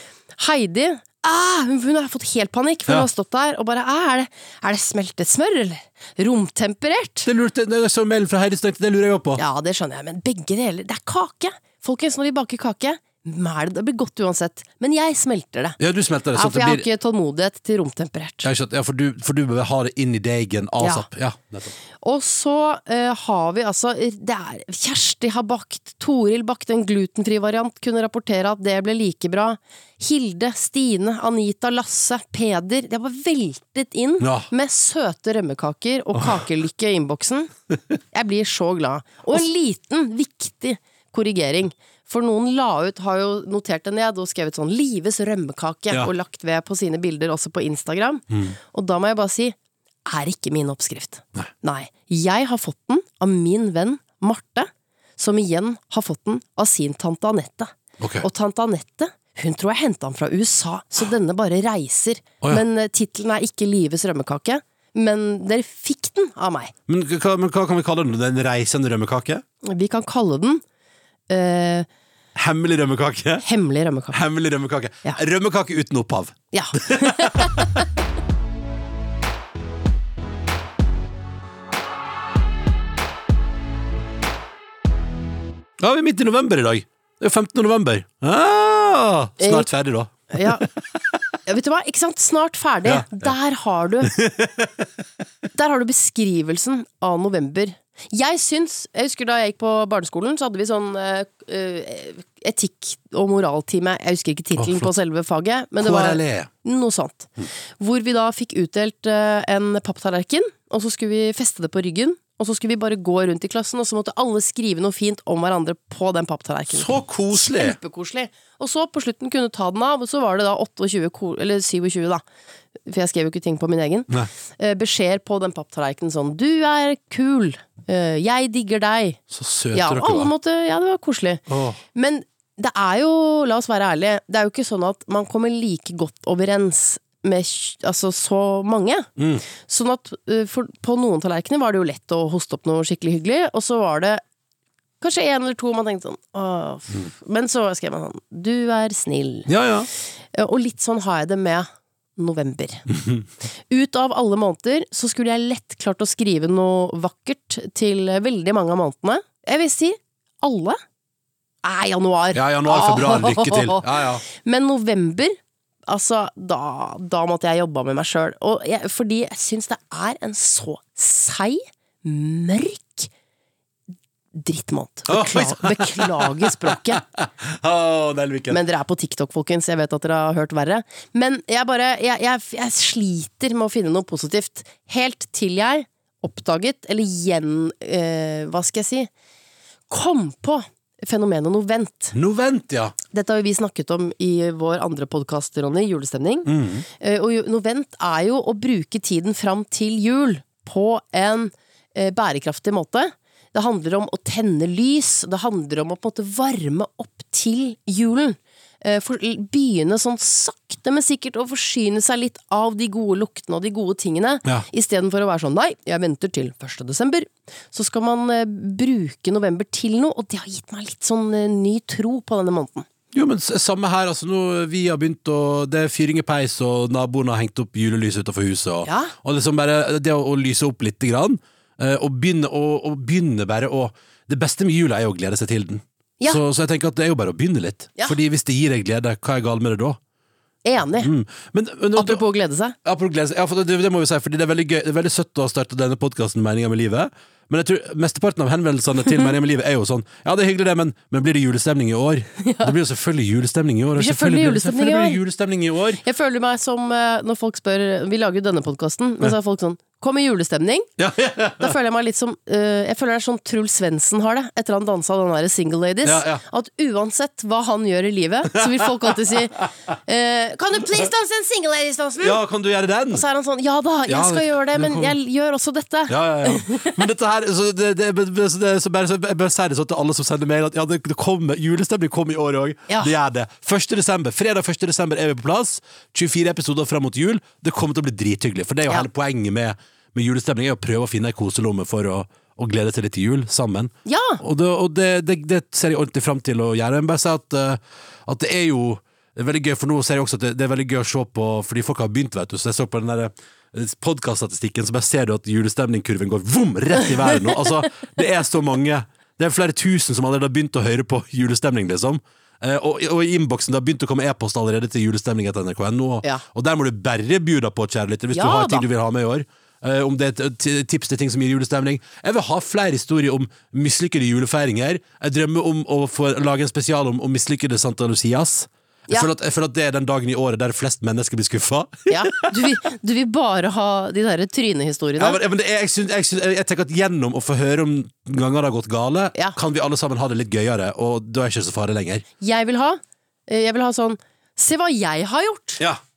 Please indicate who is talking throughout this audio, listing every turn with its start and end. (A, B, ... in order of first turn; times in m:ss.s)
0:00.4-0:07.3 A
0:07.2-0:09.4 B
0:09.4-0:15.8 A
0:15.8-0:16.9 B
0:16.3-0:18.5 A
0:18.4-0:21.8 B
0:20.8-0:21.1 A
0:22.0-0:37.5 A
0:34.2-0:34.5 B
0:38.1-1:06.7 A
0:48.3-0:48.6 B
0:58.0-0:58.3 B
1:06.9-1:09.4 B
1:09.6-1:10.6 A
1:11.3-1:11.9 A
1:12.4-1:13.4 B
1:13.4-1:14.2 A
1:14.1-1:17.7 B
1:16.5-1:17.8 A
1:25.8-1:31.0 B
1:29.4-1:29.7 A
1:30.3-1:30.6 A
1:31.4-1:34.1 A
1:32.8-1:33.3 B
1:34.0-1:34.9 B
1:35.5-2:02.2 A
1:44.6-1:44.9 B
1:45.8-1:46.5 B
1:56.7-1:57.8 B
2:02.9-2:09.2 A
2:09.3-2:10.3 B
2:09.7-2:24.2 A
2:11.5-2:11.8 B
2:19.2-2:19.4 B
2:25.0-2:29.5 A
2:29.5-2:29.9 B
2:30.3-2:32.9 A
2:33.7-2:40.8 A
2:41.6-2:45.4 A
2:42.3-2:44.2 B
2:45.9-2:53.1 A
2:54.4-2:57.0 A
2:55.1-2:58.6 B
2:58.5-3:09.1 A
3:09.9-3:12.2 A
3:12.1-3:12.9 B
3:13.1-3:42.9 A
3:16.4-3:16.9 B
3:43.1-4:00.0 B
3:48.8-3:49.1 A
4:00.6-4:01.1 A
4:01.0-4:02.2 B
4:02.0-4:02.8 A
4:02.8-4:16.0 B
4:12.4-4:12.7 A
4:14.0-4:15.2 A
4:16.0-4:20.9 A
4:21.0-4:21.8 B
4:21.6-4:32.4 A
4:26.0-4:26.4 B
4:28.5-4:29.6 B
4:32.2-4:33.2 B
4:33.1-4:37.0 A
4:34.1-4:35.2 B
4:36.1-5:32.8 B
4:54.1-4:54.4 A
5:18.3-5:18.9 A
5:32.1-5:35.4 A
5:35.2-5:42.2 B
5:42.4-5:45.8 A